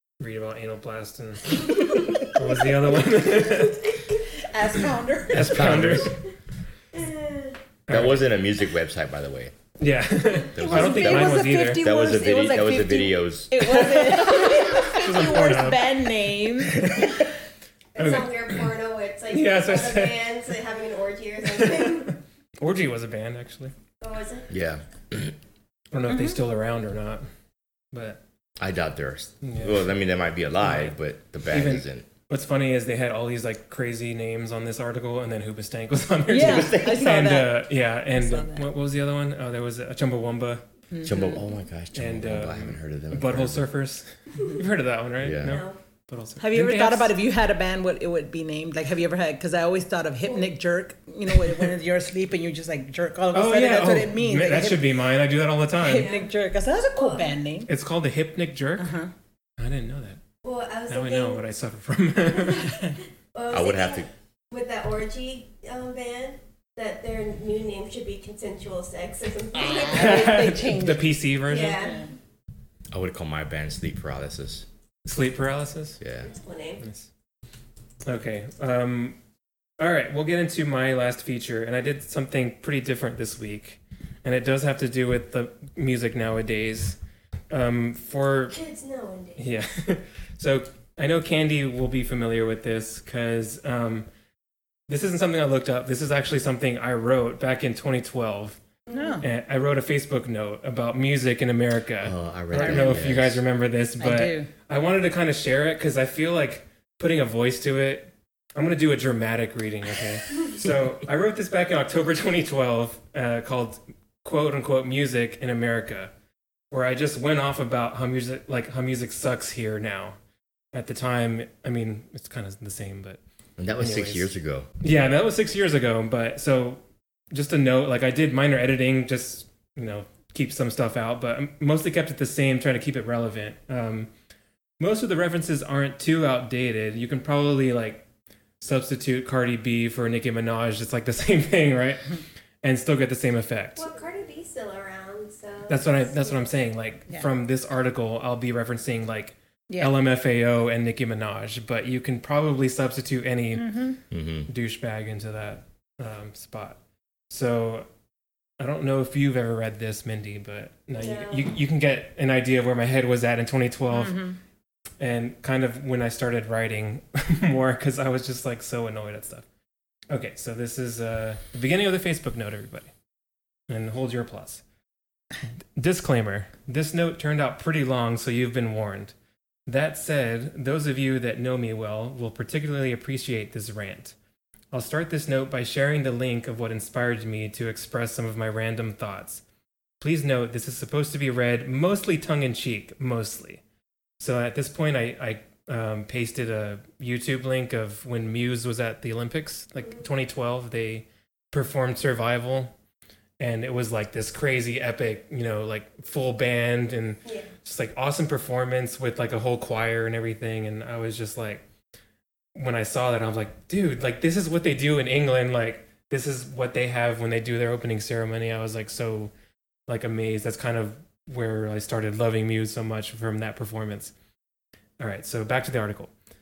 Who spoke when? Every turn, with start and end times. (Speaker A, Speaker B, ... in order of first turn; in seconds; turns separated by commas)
Speaker A: 0.2-3.9, Speaker B: 4.4-5.7, Speaker A: 5.3-6.2, Speaker C: 5.3-6.2, Speaker D: 6.9-7.6, Speaker A: 7.9-8.2, Speaker C: 7.9-9.5, Speaker A: 9.8-11.8, Speaker C: 10.5-13.7, Speaker B: 10.6-17.3, Speaker A: 13.6-16.1, Speaker A: 16.8-17.2, Speaker D: 17.9-22.1, Speaker A: 18.0-18.6, Speaker A: 19.3-20.2, Speaker A: 21.6-23.7, Speaker D: 24.0-24.5, Speaker C: 24.5-25.3, Speaker A: 25.9-27.2, Speaker B: 26.1-26.4, Speaker A: 27.9-28.2, Speaker C: 28.6-32.1, Speaker A: 29.4-29.9, Speaker A: 30.6-30.9, Speaker A: 31.5-40.6, Speaker B: 36.3-38.7, Speaker C: 36.3-37.1, Speaker B: 40.9-41.4, Speaker C: 41.0-43.6, Speaker A: 41.9-47.1, Speaker C: 45.2-45.6, Speaker D: 45.4-45.8, Speaker B: 46.4-54.9, Speaker A: 53.3-56.1, Speaker B: 55.8-57.7, Speaker D: 55.9-56.3, Speaker D: 57.0-57.4, Speaker A: 57.7-58.9, Speaker B: 58.8-59.1, Speaker A: 59.6-60.2, Speaker D: 60.4-61.4, Speaker A: 60.9-62.8, Speaker D: 62.4-70.5, Speaker C: 63.5-64.1, Speaker B: 69.5-72.1, Speaker A: 69.9-71.9, Speaker D: 71.5-72.1, Speaker C: 72.9-74.7, Speaker A: 75.0-76.0, Speaker C: 76.0-76.3, Speaker D: 76.3-76.8, Speaker A: 76.8-77.1, Speaker A: 78.0-79.2, Speaker A: 79.8-87.0, Speaker A: 87.5-88.6, Speaker D: 88.5-89.5, Speaker A: 89.4-94.1, Speaker A: 94.9-98.6, Speaker D: 98.9-99.2, Speaker B: 98.9-99.2, Speaker A: 99.2-116.1, Speaker C: 102.0-103.4, Speaker B: 102.5-103.1, Speaker B: 104.0-104.5, Speaker A: 116.7-120.2, Speaker A: 120.7-123.2, Speaker C: 123.6-124.7, Speaker A: 123.8-124.3, Speaker A: 124.8-126.8, Speaker A: 127.3-134.1, Speaker A: 134.8-138.0, Speaker A: 138.6-143.8, Speaker D: 143.8-146.4, Speaker A: 145.7-153.8, Speaker B: 149.7-149.9, Speaker B: 153.6-154.0, Speaker C: 154.1-154.5, Speaker A: 154.5-156.8, Speaker A: 157.3-157.9, Speaker A: 158.6-164.2, Speaker D: 161.0-161.5, Speaker B: 163.9-164.4, Speaker A: 165.0-169.4, Speaker A: 170.1-172.9, Speaker A: 173.7-174.6, Speaker A: 175.8-179.1, Speaker A: 179.7-184.1, Speaker A: 184.7-189.4, Speaker A: 190.0-193.6, Speaker A: 194.2-202.7, Speaker A: 203.4-211.6, Speaker D: 207.2-207.5, Speaker A: 212.5-219.3, Speaker A: 219.9-224.1, Speaker A: 225.0-226.1